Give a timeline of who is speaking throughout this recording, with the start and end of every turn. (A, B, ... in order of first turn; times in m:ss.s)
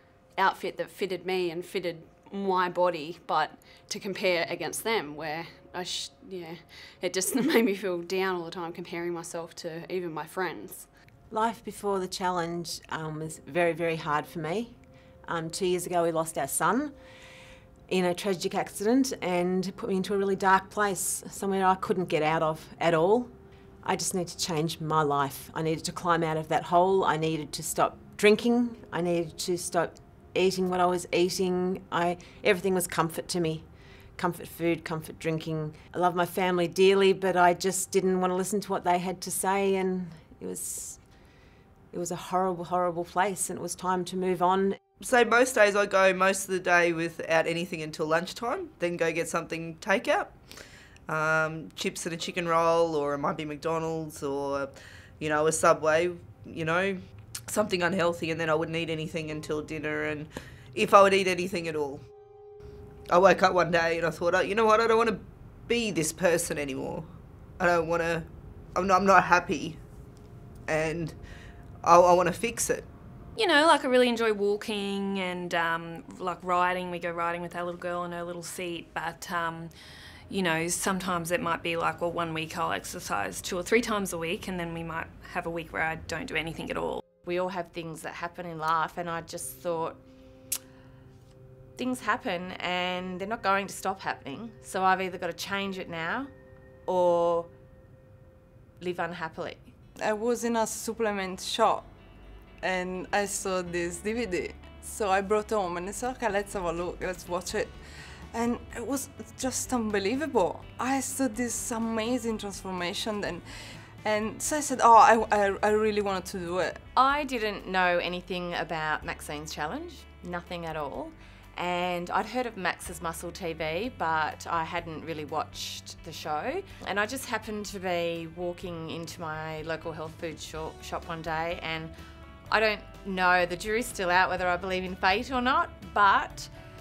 0:00.4-0:10.9 A
0:11.3-0:17.0 B
0:17.9-0:23.3 B
0:23.8-0:41.0 B
0:41.9-0:44.8 B
0:45.0-0:50.3 C
0:51.1-1:02.0 C
1:03.1-1:07.1 C
1:07.6-1:09.8 C
1:10.7-1:11.2 C
1:11.8-1:12.9 C
1:13.4-1:19.7 D
1:20.3-1:27.0 D
1:27.2-1:30.0 E
1:31.8-1:36.3 E
1:36.9-1:37.5 E
1:38.8-1:39.7 E
1:40.0-1:41.8 F
1:42.6-1:47.8 F
1:48.3-1:53.5 F
1:54.0-1:56.8 F
1:57.0-2:11.9 E
2:12.5-2:16.5 E